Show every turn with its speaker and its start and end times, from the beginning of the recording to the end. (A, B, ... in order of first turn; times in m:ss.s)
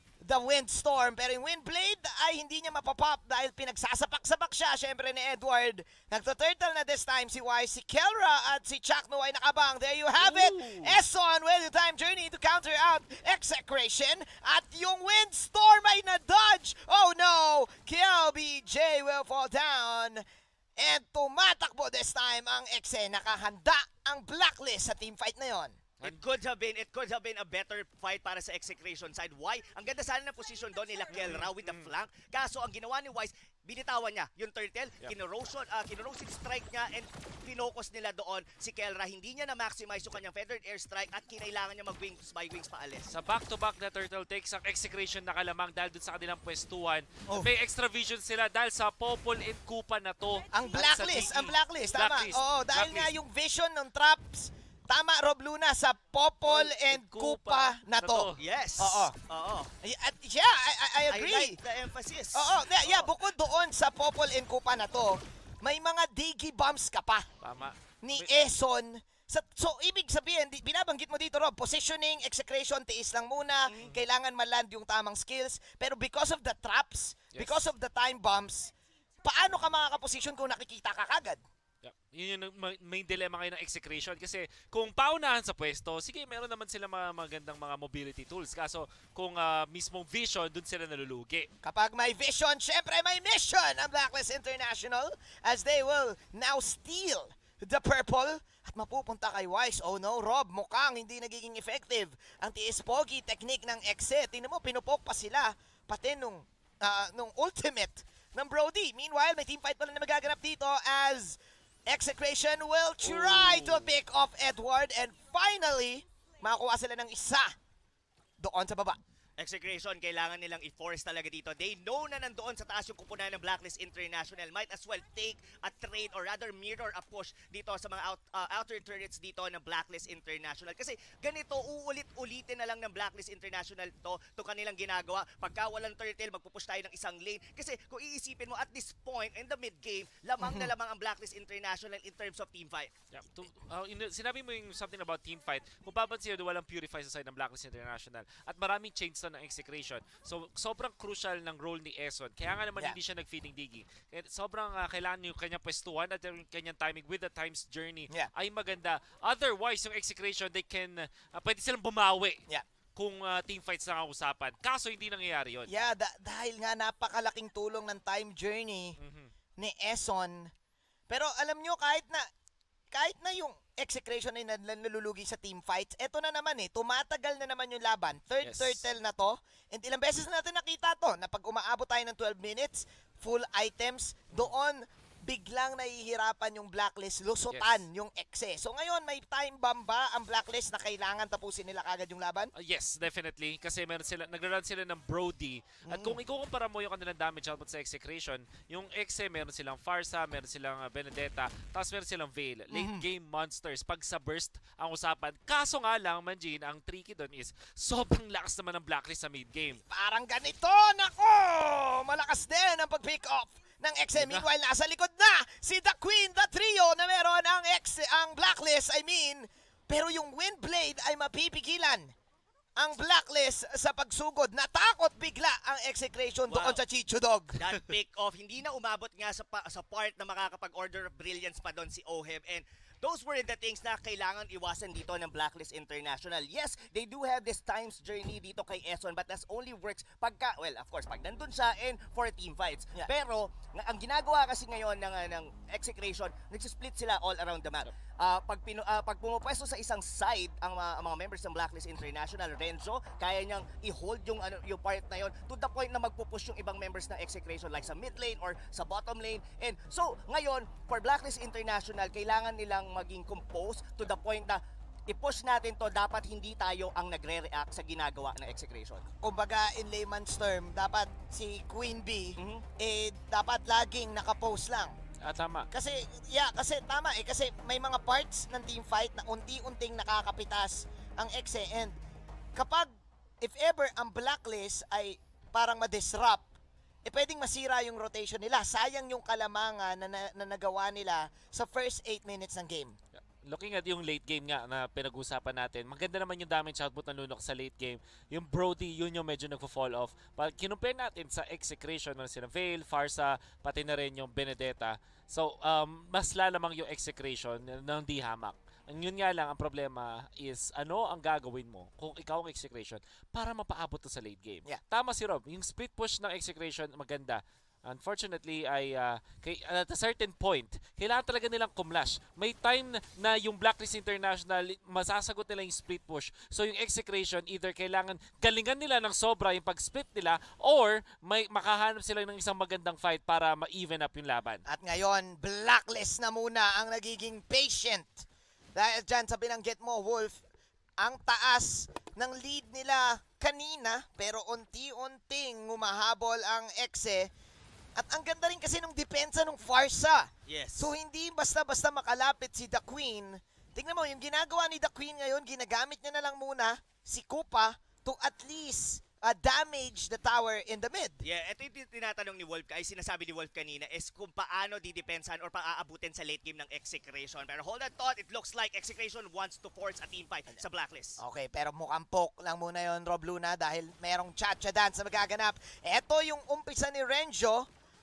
0:00.2-0:20.2 A
0:10.2-0:11.0 B
0:20.8-0:25.8 A
0:26.0-0:43.1 C
0:31.1-0:31.9 B
0:43.1-0:53.2 B
0:50.5-0:59.1 A
0:56.5-0:58.4 B
0:58.4-0:59.7 C
0:59.8-1:01.6 A
1:01.1-1:03.1 C
1:02.3-1:07.3 A
1:07.4-1:08.3 B
1:08.0-1:18.7 A
1:17.3-1:17.7 B
1:19.2-1:21.4 A
1:21.8-1:31.5 B
1:31.6-1:57.5 A
1:53.0-1:53.9 B
1:58.4-1:59.0 A
1:59.4-2:22.9 C
2:20.4-2:20.7 A
2:23.1-2:42.4 B
2:43.0-2:45.7 B
2:45.7-2:49.0 A
2:49.0-2:49.3 B
2:49.6-2:50.5 A
2:51.1-2:52.2 A
2:52.9-3:12.5 A
2:58.4-2:58.8 B
3:07.5-3:07.8 B
3:12.6-3:29.8 B
3:15.9-3:16.2 A
3:22.7-3:23.0 A
3:29.8-3:42.1 A
3:34.2-3:34.5 B
3:42.8-3:47.6 A
3:46.5-3:46.8 C
3:47.6-4:29.0 C
4:29.2-4:35.0 A
4:32.4-4:32.6 C
4:35.2-4:35.7 B
4:35.7-4:42.0 A
4:42.6-4:46.5 A
4:47.0-4:53.0 A
4:53.1-5:34.6 B
5:34.6-5:40.4 A
5:41.0-5:47.3 A
5:48.0-6:01.2 A
5:50.5-5:50.9 C
6:01.2-6:11.2 C
6:11.2-6:17.6 A